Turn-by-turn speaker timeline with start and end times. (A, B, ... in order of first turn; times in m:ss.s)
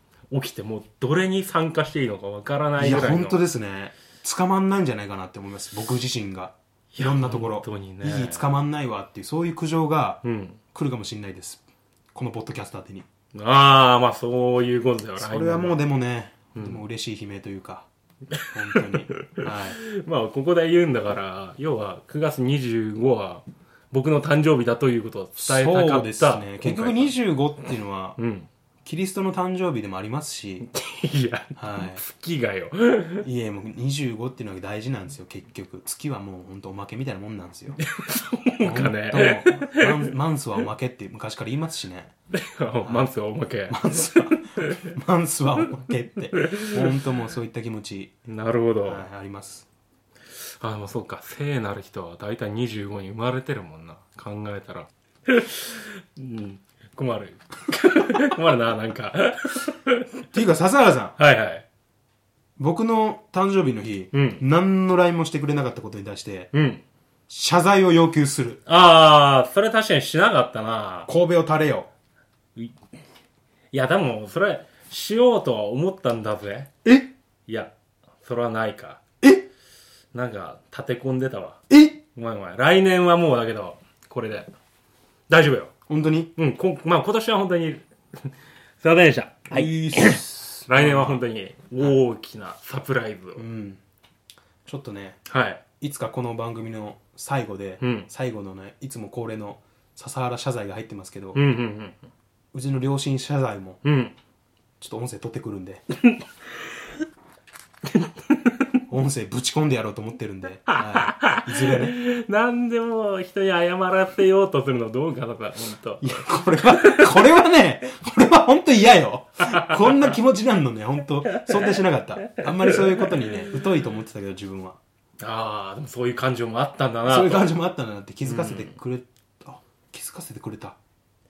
0:00.3-0:03.4 A
0:02.8-0:10.2 B
0:06.9-0:08.5 A
0:10.2-0:10.6 A
0:10.7-0:11.6 B
0:12.1-0:13.1 B
0:13.3-0:15.8 A
0:15.2-0:17.9 B
0:16.6-0:16.8 A
0:18.3-0:27.2 A
0:18.5-0:19.8 B
0:25.4-0:28.2 B
0:28.2-0:28.5 A
0:28.8-0:30.7 B
0:30.7-0:33.3 A
0:31.6-0:32.0 B
0:33.2-0:37.8 B
0:37.8-0:40.1 A
0:38.6-0:42.1 B
0:42.3-0:44.9 A
0:42.8-0:43.1 B
0:43.7-0:48.2 B
0:46.4-0:46.9 A
0:48.3-0:49.1 A
0:48.8-0:49.7 B
0:50.3-1:00.1 A
1:00.3-1:01.2 B
1:01.2-1:01.6 A
1:02.6-1:06.5 B
1:04.1-1:04.4 A
1:06.5-1:06.8 A
1:07.3-1:08.6 B
1:08.7-1:11.1 A
1:11.1-1:11.9 B
1:13.7-1:16.7 A
1:16.8-1:17.1 B
1:17.5-1:19.0 A
1:19.2-1:19.5 B
1:20.1-1:21.6 A
1:21.7-1:22.0 B
1:22.2-1:24.5 A
1:25.3-1:25.7 A
1:25.9-1:26.3 B
1:26.4-1:33.4 A
1:29.5-1:31.2 B
1:33.4-1:33.8 B
1:34.7-1:35.2 B
1:35.3-1:35.6 A
1:35.8-1:41.4 B
1:37.8-1:38.1 A
1:41.4-1:42.0 A
1:42.5-1:43.8 B
1:43.8-1:44.2 A
1:44.8-1:45.8 B
1:47.9-1:48.7 A
1:48.9-1:52.0 B
1:50.7-1:56.2 A
1:56.0-2:04.8 B
1:56.8-1:57.1 A
1:59.5-2:00.2 A
2:01.5-2:01.7 A
2:05.2-2:07.5 A
2:07.1-2:10.8 B
2:08.2-2:08.8 A